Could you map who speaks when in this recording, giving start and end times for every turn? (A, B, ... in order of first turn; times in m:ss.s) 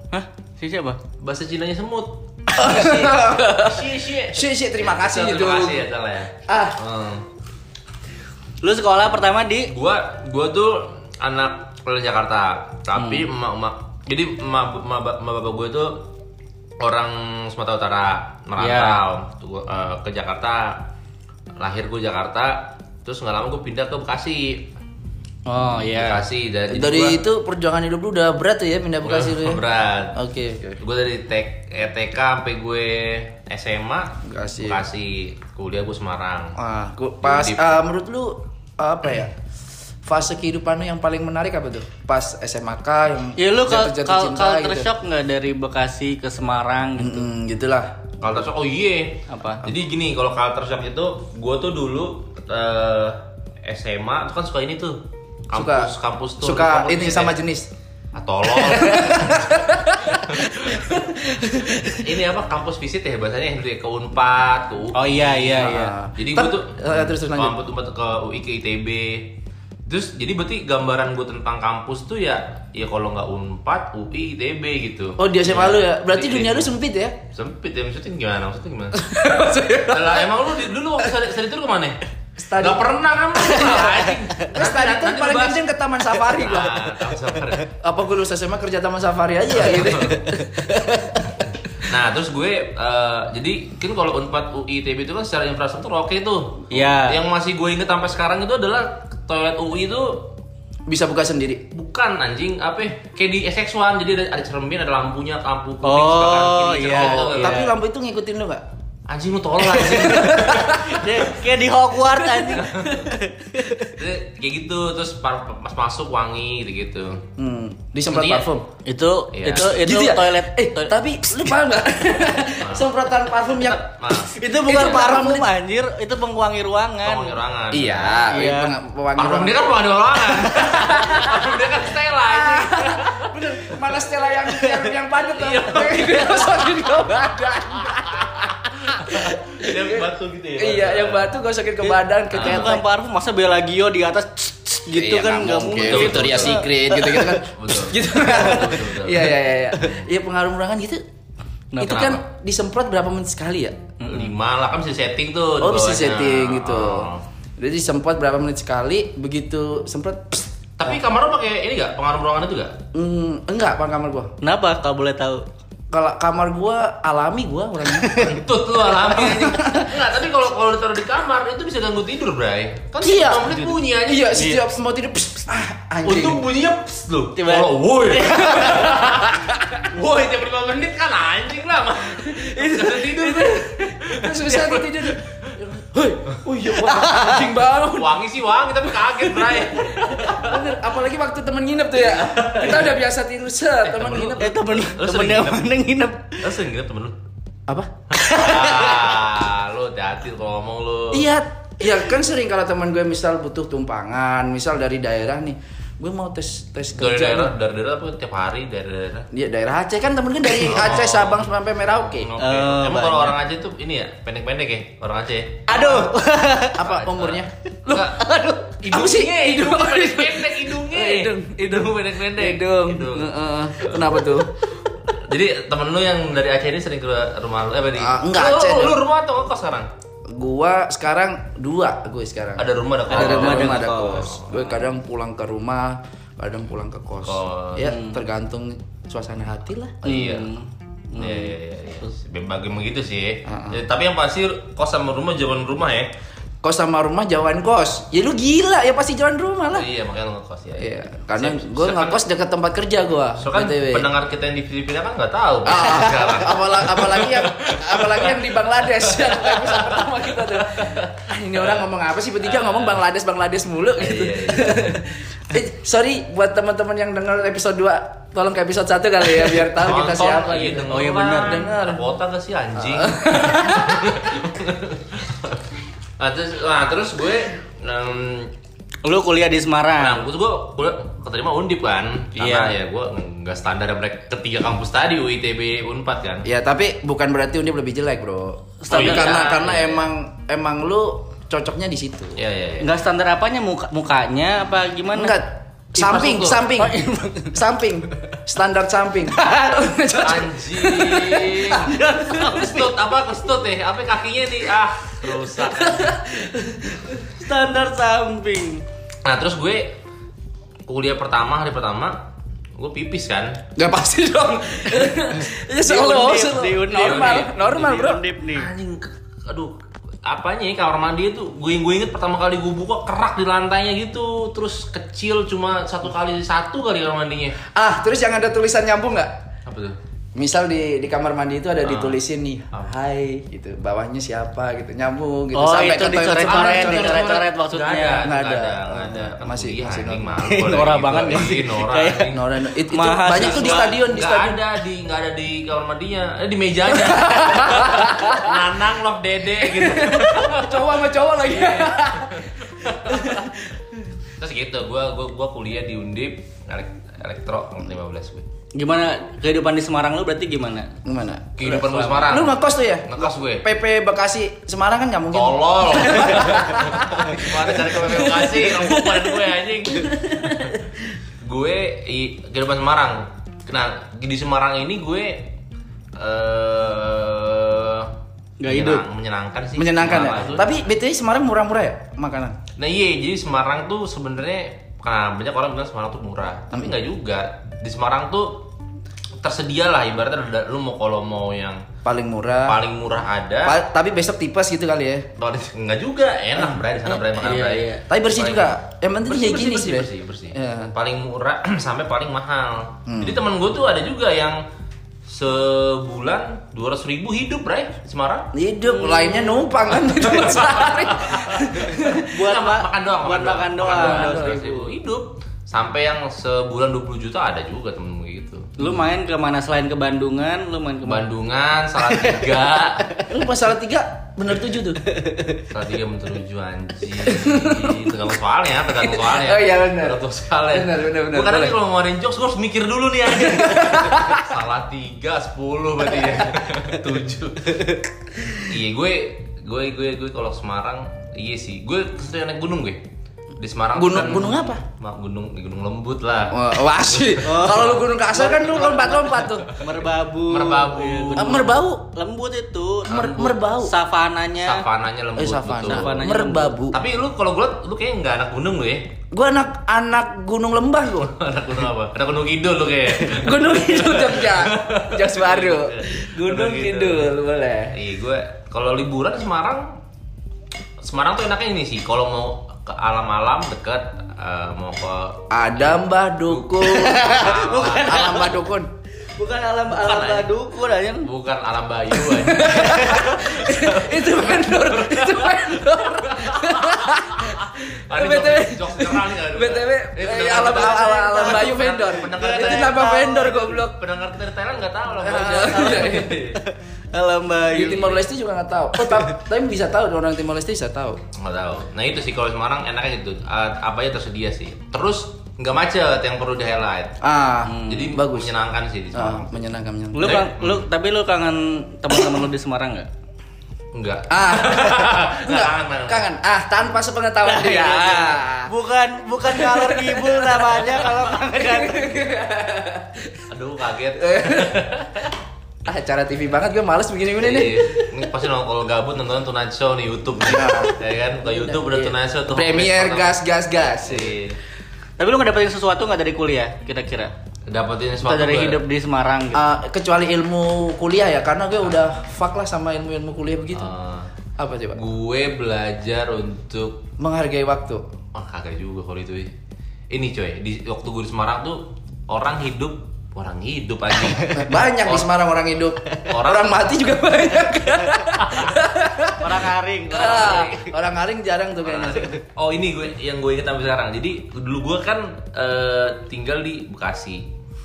0:00.1-0:01.0 A
0:01.2-0:07.2 B
0:02.5-0:05.9 C
0:06.5-0:06.8 C
0:08.6-0:09.7 A
0:09.7-0:16.1 B
0:13.0-0:13.3 A
0:16.8-0:20.9 B
0:18.6-0:19.0 A
0:21.6-0:24.7 B
0:25.5-0:26.3 A
0:25.9-0:27.2 B
0:26.7-0:29.6 C
0:29.0-0:36.6 B
0:30.1-0:30.8 C
0:34.2-0:34.8 C
0:36.6-0:39.3 C
0:37.2-0:37.8 B
0:40.0-0:44.9 C
0:43.4-0:47.3 A
0:47.0-0:48.0 C
0:48.2-0:57.4 B
0:49.3-0:49.6 A
0:55.5-0:57.7 C
0:58.1-1:01.0 B
0:58.5-1:02.0 C
1:01.8-1:09.3 B
1:04.9-1:06.0 A
1:05.6-1:07.6 C
1:09.9-1:16.7 B
1:15.2-1:17.2 C
1:17.3-1:19.2 B
1:18.9-1:20.3 C
1:19.9-1:22.0 B
1:22.4-1:27.1 C
1:22.6-1:25.6 B
1:26.2-1:27.7 B
1:27.7-1:31.0 C
1:29.6-1:30.2 B
1:30.3-1:31.2 A
1:31.8-1:40.3 B
1:36.7-1:37.2 A
1:40.9-1:41.6 C
1:41.7-1:47.7 B
1:45.8-1:47.8 A
1:47.0-1:48.6 C
1:49.1-1:51.1 B
1:49.7-1:54.0 A
1:50.0-1:51.0 C
1:52.2-1:52.6 C
1:52.5-1:53.1 B
1:53.8-1:57.2 B
1:57.4-1:58.7 C
1:58.1-1:58.5 B
1:58.8-2:01.0 A
1:59.3-1:59.8 B
1:59.6-2:03.9 C
2:02.6-2:02.9 B
2:03.6-2:04.9 B
2:04.2-2:07.4 A
2:04.7-2:05.5 C
2:07.0-2:08.3 B
2:07.7-2:09.8 C
2:08.3-2:08.8 A
2:09.2-2:13.8 B
2:10.4-2:20.0 C
2:10.6-2:11.0 A
2:14.5-2:14.9 A
2:15.2-2:16.7 B
2:17.8-2:21.3 B
2:20.6-2:22.8 C
2:22.3-2:22.8 B
2:22.3-2:27.4 A
2:24.9-2:31.0 C
2:25.8-2:26.6 B
2:27.4-2:30.0 B
2:31.7-2:32.2 A
2:31.8-2:33.8 C
2:31.8-2:32.2 B
2:34.0-2:34.4 A
2:34.1-2:37.2 B
2:35.6-2:40.9 C
2:40.8-2:42.8 B
2:42.9-2:44.3 C
2:44.4-2:45.4 A
2:45.9-2:48.4 C
2:47.9-2:48.4 A
2:48.2-2:54.6 B
2:48.9-2:50.0 C
2:53.0-2:56.4 C
2:53.4-2:53.8 A
2:54.4-2:54.6 A
2:56.0-3:05.5 B
2:57.4-2:59.1 A
2:58.6-2:59.8 C
3:02.2-3:08.2 C
3:06.9-3:07.5 A
3:07.9-3:10.8 B
3:09.2-3:14.6 C
3:12.3-3:12.9 B
3:13.8-3:15.7 B
3:14.4-3:16.4 A
3:16.4-3:17.2 B
3:18.1-3:19.2 A
3:18.1-3:21.3 B
3:21.1-3:27.6 C
3:27.0-3:29.3 B
3:29.3-3:32.3 C
3:30.6-3:35.9 B
3:32.4-3:33.4 A
3:35.7-3:36.2 C
3:35.7-3:36.8 A
3:36.8-3:38.0 C
3:36.8-3:38.2 B
3:37.9-3:38.8 A
3:38.8-3:44.5 B
3:38.9-3:44.5 C
3:45.1-3:49.9 B
3:48.0-3:49.0 C
3:50.3-4:00.0 C
3:52.6-3:54.7 B
3:53.1-3:54.4 A
3:57.3-3:58.0 B
3:57.8-3:58.2 A
4:00.0-4:00.5 B
4:00.0-4:01.5 A
4:01.2-4:06.1 B
4:03.5-4:03.8 C
4:06.6-4:09.9 C
4:09.7-4:12.2 B
4:10.8-4:14.1 C
4:13.4-4:21.9 B
4:15.6-4:32.1 C
4:22.4-4:23.0 B
4:24.0-4:25.0 B
4:29.7-4:35.6 B
4:30.9-4:31.6 A
4:32.8-4:34.2 C
4:36.2-4:38.5 B
4:39.0-4:40.2 A
4:40.0-4:46.5 B
4:42.4-4:42.8 A
4:46.4-4:52.4 C
4:48.8-4:49.6 A
4:48.9-4:50.0 B
4:52.4-4:52.9 B
4:52.8-4:55.4 A
4:55.1-4:57.0 C
4:56.0-4:56.7 B
4:56.1-4:57.6 A
4:57.5-5:01.7 C
4:59.3-4:59.9 A
5:00.1-5:06.2 B
5:01.6-5:02.9 A
5:05.8-5:07.1 C
5:07.1-5:08.8 A
5:09.2-5:10.0 B
5:10.9-5:12.2 B
5:12.8-5:13.6 B
5:13.8-5:18.2 C
5:15.8-5:18.7 A
5:16.9-5:17.5 B
5:18.5-5:19.7 B
5:20.2-5:27.6 B
5:27.7-5:29.4 C
5:29.7-5:30.0 B
5:30.4-5:37.4 C
5:31.8-5:32.2 B
5:35.5-5:38.3 A
5:36.3-5:42.5 B
5:38.2-5:40.4 C
5:40.4-5:42.3 A
5:42.3-5:44.6 C
5:42.9-5:43.9 A
5:43.3-5:53.4 B
5:47.0-5:48.6 C
5:49.6-5:53.8 C
5:54.4-5:58.5 B
5:58.7-6:00.9 A
6:01.0-6:09.4 C
6:01.6-6:03.7 B
6:02.0-6:02.3 A
6:05.3-6:10.8 B
6:10.1-6:10.4 C
6:11.4-6:15.5 B
6:16.2-6:18.1 B
6:18.6-6:19.0 A
6:18.7-6:20.8 B
6:19.8-6:22.6 C
6:22.8-6:28.7 B
6:29.4-6:31.8 B
6:32.0-6:32.8 C
6:32.7-6:33.8 B
6:33.6-6:35.3 C
6:35.4-6:44.6 B
6:36.6-6:37.2 C
6:37.3-6:38.0 A
6:38.1-6:40.9 C
6:43.1-6:43.4 C
6:45.3-6:48.5 B
6:48.5-6:52.3 C
6:48.9-6:49.6 A
6:50.2-6:58.8 B
6:52.2-6:54.8 A
6:54.0-6:54.8 C
6:58.8-7:01.3 A
7:01.0-7:03.0 B
7:02.0-7:03.3 A
7:03.3-7:05.0 C
7:05.0-7:05.6 A
7:05.7-7:18.0 B
7:07.2-7:08.1 C
7:09.0-7:11.8 C
7:13.3-7:14.4 C
7:17.7-7:18.0 A
7:18.6-7:23.0 B
7:23.6-7:28.0 B
7:24.0-7:24.8 C
7:26.5-7:29.7 C
7:27.4-7:34.9 A
7:29.7-7:30.0 B
7:30.5-7:31.7 B
7:31.4-7:32.0 C
7:33.1-7:33.9 C
7:33.1-7:33.6 B
7:34.6-7:36.2 B
7:35.4-7:37.0 C
7:35.8-7:36.8 A
7:36.9-7:39.1 B
7:39.3-7:41.4 C
7:41.2-7:47.3 B
7:43.2-7:48.0 C
7:47.9-7:50.0 B
7:51.0-7:58.4 B
7:55.5-7:57.2 C
7:56.8-7:58.5 A
7:58.0-7:58.9 C
7:59.4-8:01.3 A
7:59.9-8:00.5 B
8:01.2-8:16.6 B
8:02.2-8:14.0 C
8:02.8-8:03.4 A
8:10.7-8:11.7 A
8:12.3-8:13.6 A
8:15.2-8:16.4 C
8:15.7-8:18.2 A
8:17.7-8:21.2 C
8:19.0-8:19.3 A
8:21.3-8:27.2 B
8:27.2-8:28.5 C
8:27.7-8:28.1 A
8:27.8-8:29.5 B
8:29.1-8:30.4 C
8:30.1-8:33.1 A
8:30.2-8:30.9 B
8:33.9-8:36.3 B
8:34.3-8:38.7 C
8:37.4-8:42.3 A
8:39.4-8:43.5 C
8:43.5-8:45.3 B
8:44.2-8:45.0 C
8:45.8-8:48.1 C
8:47.4-8:54.6 B
8:50.4-8:54.4 C
8:55.2-8:57.3 A
8:57.7-8:58.8 B
8:58.2-8:59.7 A
8:59.5-9:03.9 C
9:03.7-9:04.3 B
9:04.6-9:05.0 C
9:04.9-9:07.1 B
9:07.2-9:08.0 C
9:08.3-9:09.5 B
9:10.1-9:15.3 B
9:14.4-9:14.6 A
9:14.5-9:19.6 C
9:16.2-9:17.0 B
9:18.4-9:18.8 B
9:19.3-9:20.9 A
9:20.1-9:22.4 C
9:20.2-9:20.8 B
9:21.8-9:27.5 B